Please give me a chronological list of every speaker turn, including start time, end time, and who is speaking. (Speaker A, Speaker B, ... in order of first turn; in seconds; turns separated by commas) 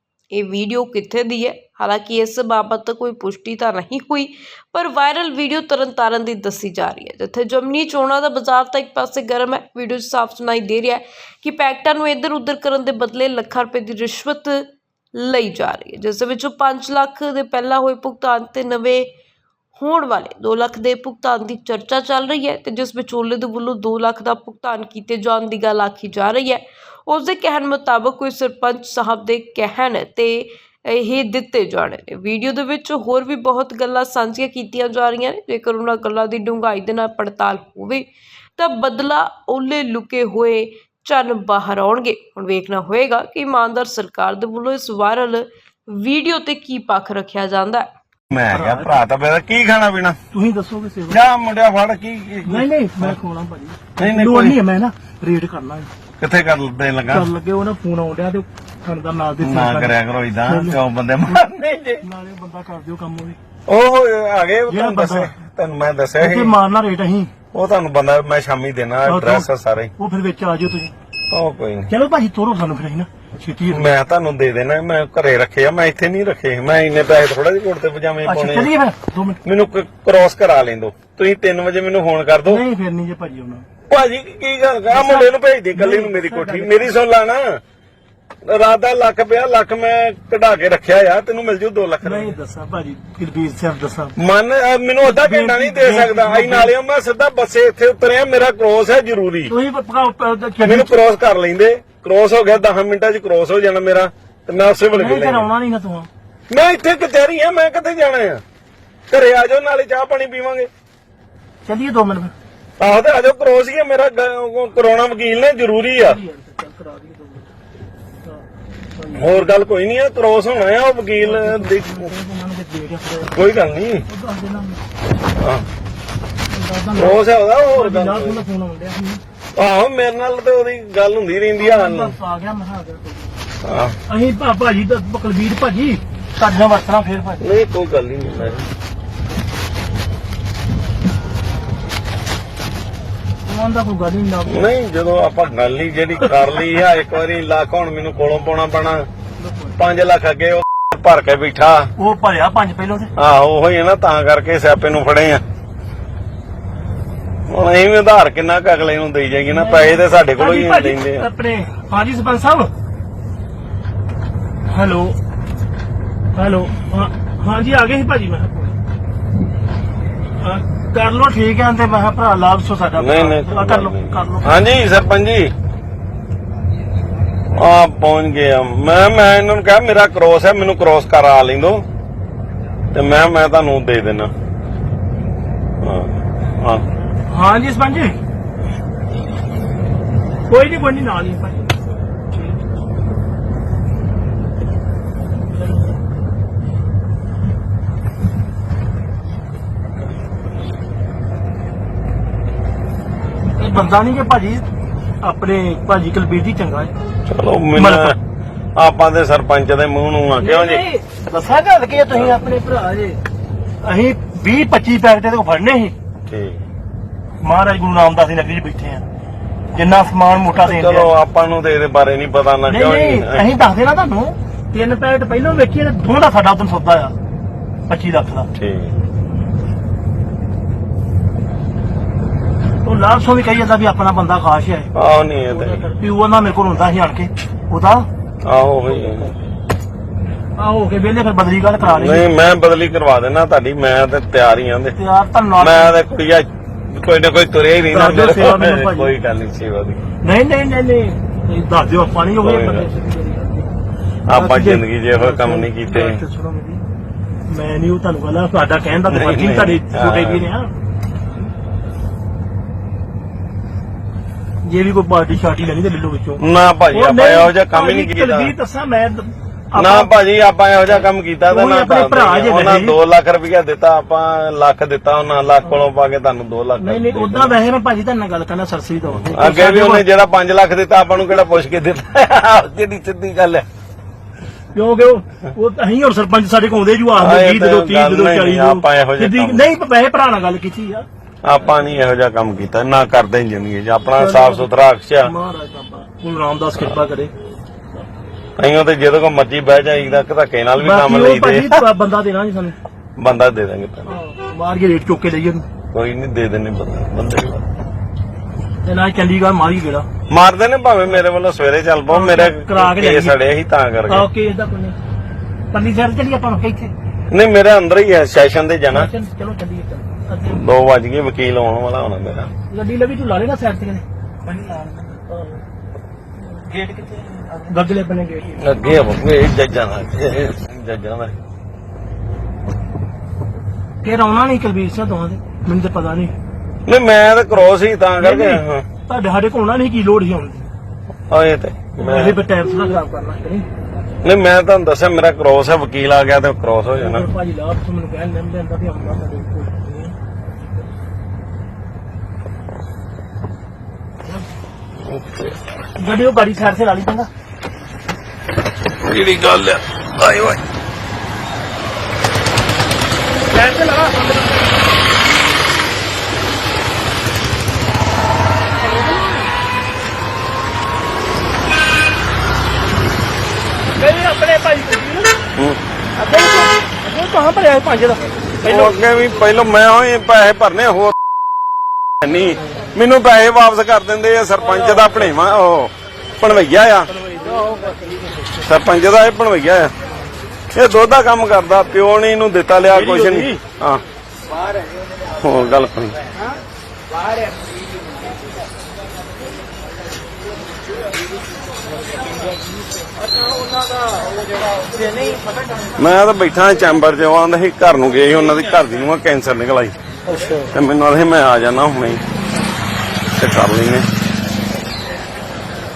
Speaker A: 0.3-19.1, Speaker A: 19.7-47.9, Speaker B: 48.3-50.2, Speaker C: 48.5-49.0, Speaker C: 50.3-51.2, Speaker B: 51.1-53.1, Speaker C: 52.5-55.9, Speaker B: 54.0-54.6, Speaker B: 56.2-57.3, Speaker C: 57.1-59.9, Speaker B: 59.4-62.0, Speaker C: 60.5-61.4, Speaker C: 62.0-63.4, Speaker B: 63.7-66.5, Speaker C: 64.7-65.3, Speaker C: 66.2-67.3, Speaker B: 67.5-69.9, Speaker C: 69.0-70.9, Speaker B: 71.3-71.9, Speaker C: 71.9-74.0, Speaker B: 73.7-78.7, Speaker C: 78.2-79.4, Speaker B: 79.4-82.6, Speaker C: 82.5-83.7, Speaker B: 83.9-87.6, Speaker C: 84.9-86.9, Speaker B: 88.5-92.3, Speaker C: 92.0-94.1, Speaker B: 94.2-99.5, Speaker C: 95.0-96.7, Speaker C: 99.5-101.0, Speaker B: 100.6-105.5, Speaker C: 104.9-106.1, Speaker B: 106.5-108.4, Speaker B: 109.1-110.7, Speaker C: 111.7-112.3, Speaker B: 112.8-116.2, Speaker C: 116.0-117.5, Speaker C: 119.0-119.4, Speaker B: 119.1-122.1, Speaker C: 121.2-123.5, Speaker B: 123.3-124.0, Speaker C: 124.1-124.8, Speaker B: 125.4-125.6, Speaker C: 126.5-127.2, Speaker B: 126.9-128.4, Speaker C: 127.7-129.2, Speaker B: 129.6-132.1, Speaker C: 131.6-133.4, Speaker B: 133.6-134.0, Speaker C: 134.1-137.4, Speaker B: 137.4-138.6, Speaker C: 143.4-144.6, Speaker B: 144.4-149.1, Speaker C: 149.4-149.7, Speaker B: 149.8-151.9, Speaker C: 152.0-153.1, Speaker B: 153.2-155.4, Speaker B: 157.5-161.2, Speaker C: 159.5-162.7, Speaker C: 164.7-165.2, Speaker C: 166.3-168.8, Speaker C: 170.4-174.6, Speaker B: 173.0-175.5, Speaker B: 177.5-181.8, Speaker B: 182.9-184.3, Speaker B: 185.8-186.8, Speaker C: 187.3-188.2, Speaker C: 190.5-191.7, Speaker C: 203.5-204.6, Speaker C: 205.2-206.9, Speaker B: 207.2-208.2, Speaker C: 207.8-208.1, Speaker B: 208.8-210.8, Speaker C: 210.4-213.2, Speaker B: 212.1-212.4, Speaker C: 213.8-215.9, Speaker B: 216.3-216.7, Speaker C: 217.4-219.0, Speaker C: 219.7-221.1, Speaker B: 220.5-223.5, Speaker C: 222.7-227.1, Speaker C: 227.9-228.5, Speaker B: 228.5-229.0, Speaker C: 232.8-234.9, Speaker B: 234.9-235.9, Speaker C: 235.5-238.1, Speaker B: 238.4-239.3, Speaker C: 238.9-239.2, Speaker C: 240.6-242.3, Speaker B: 241.8-244.9, Speaker C: 244.9-246.0, Speaker B: 245.6-250.1, Speaker C: 247.9-249.1, Speaker C: 250.2-253.7, Speaker B: 252.4-252.9, Speaker B: 254.3-256.2, Speaker C: 254.3-256.8, Speaker C: 257.5-260.7, Speaker B: 259.0-260.4, Speaker C: 264.6-266.4, Speaker B: 266.4-268.5, Speaker C: 266.9-270.1, Speaker B: 269.8-277.6, Speaker C: 271.5-273.0, Speaker C: 276.8-280.0, Speaker B: 279.2-283.6, Speaker C: 284.7-291.1, Speaker B: 287.1-289.7, Speaker B: 291.4-295.3, Speaker C: 294.1-294.7, Speaker C: 295.2-297.3, Speaker B: 298.6-301.8, Speaker C: 300.8-302.8, Speaker B: 303.2-304.1, Speaker C: 304.1-305.6, Speaker B: 305.9-307.6, Speaker C: 308.8-310.1, Speaker B: 310.3-314.3, Speaker C: 312.1-313.3, Speaker C: 314.1-315.0, Speaker C: 315.7-316.9, Speaker B: 317.3-319.1, Speaker C: 318.9-320.6, Speaker B: 320.5-322.5, Speaker C: 322.7-325.6, Speaker C: 327.6-328.6, Speaker B: 328.6-331.3, Speaker C: 334.0-336.3, Speaker B: 336.9-338.8, Speaker C: 338.2-340.7, Speaker B: 341.3-342.4, Speaker C: 342.0-343.6, Speaker B: 344.2-347.2, Speaker C: 346.9-350.1, Speaker B: 355.0-355.6, Speaker C: 356.0-357.3, Speaker B: 359.0-360.6, Speaker C: 363.5-364.8, Speaker C: 368.9-369.4, Speaker C: 374.0-375.3, Speaker C: 376.2-378.9, Speaker B: 378.6-381.2, Speaker B: 382.2-387.1, Speaker C: 384.7-385.1, Speaker C: 387.2-388.3, Speaker B: 388.6-389.9, Speaker B: 390.7-394.0, Speaker C: 392.9-393.5, Speaker B: 395.4-396.2, Speaker B: 405.9-409.9, Speaker C: 410.3-410.7, Speaker B: 410.6-412.2, Speaker B: 413.3-414.1